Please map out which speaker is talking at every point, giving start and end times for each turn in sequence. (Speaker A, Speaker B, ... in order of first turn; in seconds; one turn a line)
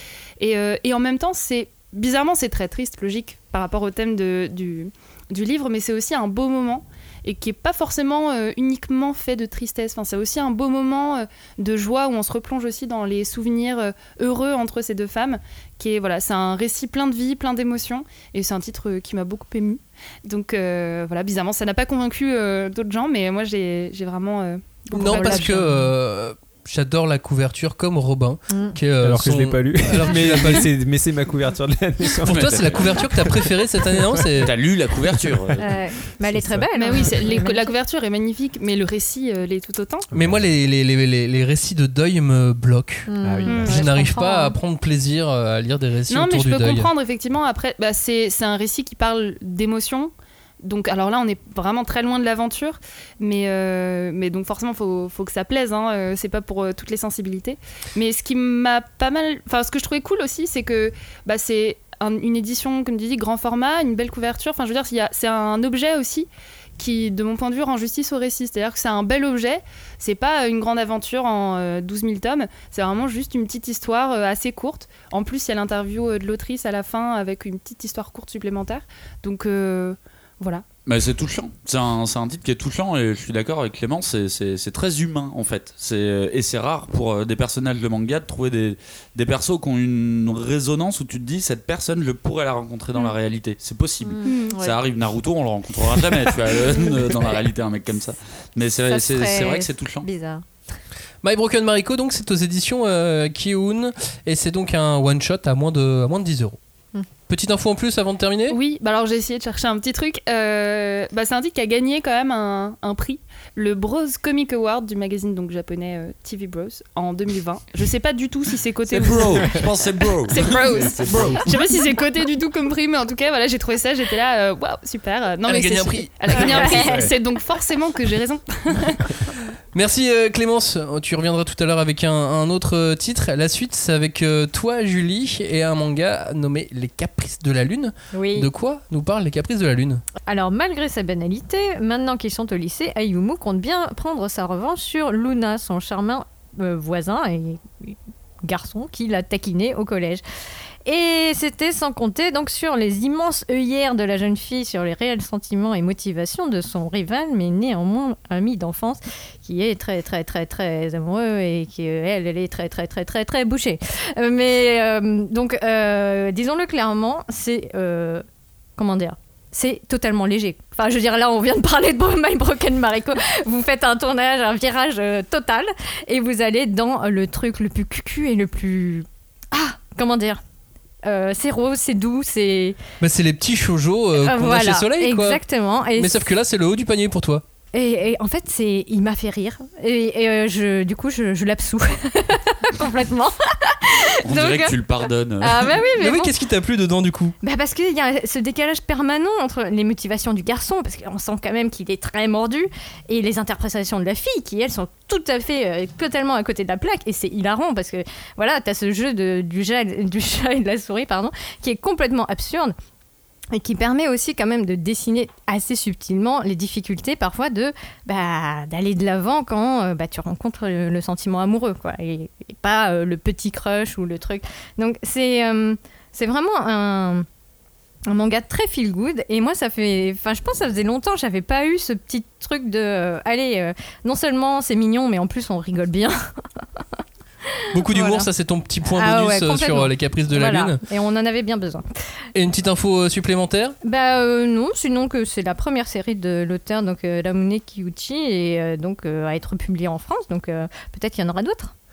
Speaker A: 0.4-25.7
Speaker B: 24.9-30.7
Speaker C: 25.0-25.9
Speaker C: 28.5-28.8
Speaker D: 29.0-33.1
Speaker B: 32.2-34.5
Speaker E: 32.3-33.1
Speaker D: 33.8-34.4
Speaker E: 34.5-35.6
Speaker D: 35.3-36.7
Speaker C: 35.6-37.7
Speaker A: 36.7-40.1
Speaker D: 40.1-40.4
Speaker B: 40.1-43.1
Speaker C: 43.1-44.6
Speaker D: 43.2-43.7
Speaker A: 43.5-43.8
Speaker B: 43.6-46.9
Speaker A: 46.1-80.6
Speaker E: 80.8-100.1
Speaker C: 94.0-94.8
Speaker A: 94.2-94.6
Speaker C: 98.9-100.5
Speaker B: 101.2-106.6
Speaker B: 107.3-108.6
Speaker A: 108.5-119.5
Speaker E: 119.0-120.7
Speaker A: 120.3-129.0
Speaker D: 120.7-121.5
Speaker B: 125.5-127.0
Speaker C: 126.4-127.0
Speaker D: 126.8-127.1
Speaker B: 129.7-140.0
Speaker C: 138.1-138.5
Speaker C: 140.2-150.2
Speaker C: 150.8-168.2
Speaker C: 168.8-180.4
Speaker C: 181.0-182.8
Speaker B: 183.0-185.4
Speaker C: 184.2-186.3
Speaker B: 186.0-187.4
Speaker C: 187.7-194.8
Speaker E: 194.2-195.8
Speaker C: 195.4-196.3
Speaker B: 196.0-197.3
Speaker C: 197.4-212.8
Speaker C: 213.5-227.2
Speaker C: 228.1-236.2
Speaker C: 237.4-238.3
Speaker B: 237.7-240.8
Speaker C: 238.8-241.8
Speaker B: 242.3-243.8
Speaker C: 243.8-251.7